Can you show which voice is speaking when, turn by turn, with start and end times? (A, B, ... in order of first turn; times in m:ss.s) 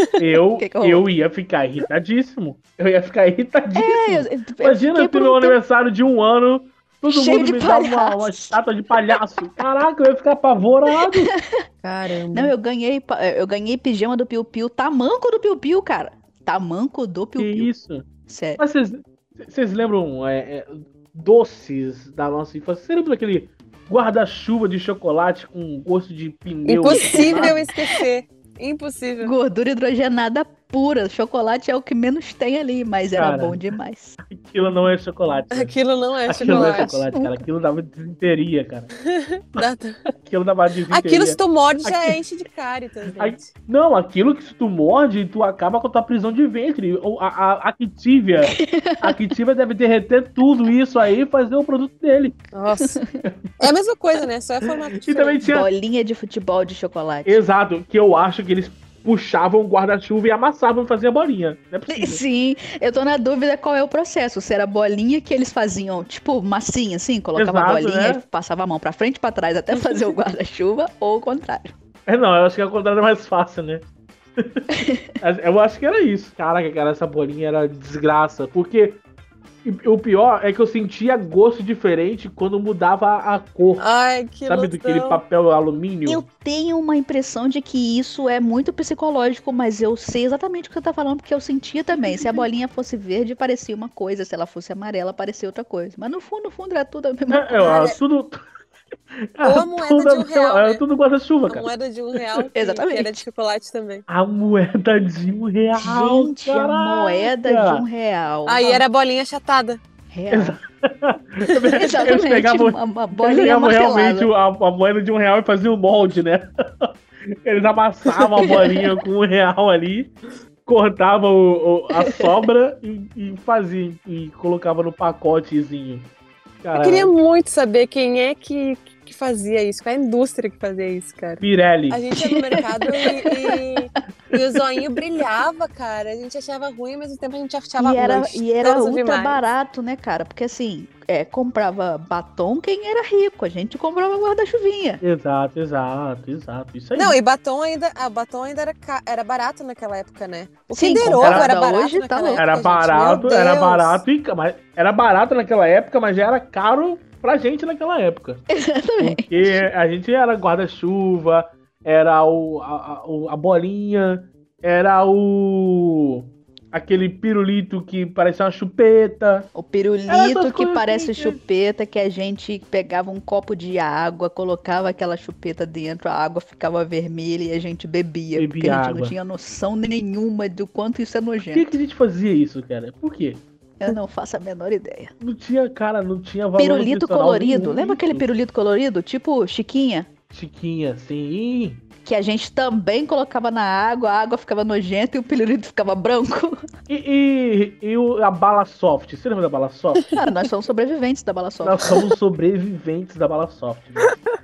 0:00.2-0:11.3 A
0:00.6-0:01.0 B
0:03.7-0:05.6 B
0:07.1-0:08.6 B
0:10.9-0:17.7 B
0:11.8-0:12.5 C
0:17.4-0:18.1 A
0:18.3-0:18.6 B
0:18.6-0:27.7 A
0:26.6-0:29.3 C
0:26.9-0:27.7 B
0:29.2-0:34.2 B
0:33.1-0:33.6 A
0:34.2-0:38.9 A
0:35.5-0:37.0 C
0:36.4-0:37.4 B
0:39.0-0:40.0 C
0:40.2-0:42.2 A
0:40.9-0:43.5 C
0:43.2-0:52.4 A
0:48.4-0:49.2 B
0:52.5-0:53.0 C
0:52.8-0:53.1 B
0:53.6-0:55.4 C
0:55.1-0:55.7 A
0:55.4-0:57.4 B
0:57.2-1:02.2 A
1:01.9-1:11.7 B
1:07.3-1:08.2 A
1:12.1-1:13.8 A
1:14.4-1:14.6 A
1:14.7-1:15.1 B
1:15.2-1:19.0 A
1:19.6-1:23.9 A
1:23.8-1:25.2 C
1:24.4-1:26.2 A
1:26.0-1:37.9 B
1:32.0-1:32.4 C
1:37.3-1:38.4 A
1:37.6-1:38.0 C
1:39.4-1:42.2 A
1:39.4-1:40.8 C
1:41.5-1:44.0 C
1:42.5-1:43.2 B
1:44.1-1:47.8 A
1:45.8-1:48.8 B
1:48.4-1:49.8 C
1:50.1-1:50.6 B
1:50.3-2:00.1 A
1:51.5-1:54.3 B
1:58.4-1:58.9 B
2:00.6-2:06.1 A
2:01.9-2:02.5 B
2:06.6-2:07.1 A
2:06.7-2:19.4 C
2:11.4-2:12.0 A
2:12.1-2:12.8 B
2:13.5-2:14.0 B
2:17.8-2:25.0 B
2:25.0-2:27.2 A
2:27.0-2:34.0 C
2:30.7-2:32.5 B
2:31.0-2:31.5 A
2:32.4-2:38.4 A
2:38.5-2:39.7 B
2:39.0-2:49.5 A
2:49.5-3:01.8 B
2:50.1-2:51.4 A
2:58.3-2:59.2 A
3:01.5-3:03.4 A
3:03.8-3:05.1 B
3:05.2-3:08.2 A
3:06.6-3:10.1 B
3:10.3-3:11.8 A
3:12.0-3:16.6 B
3:16.9-3:20.2 A
3:20.2-3:22.0 B
3:21.6-3:24.1 A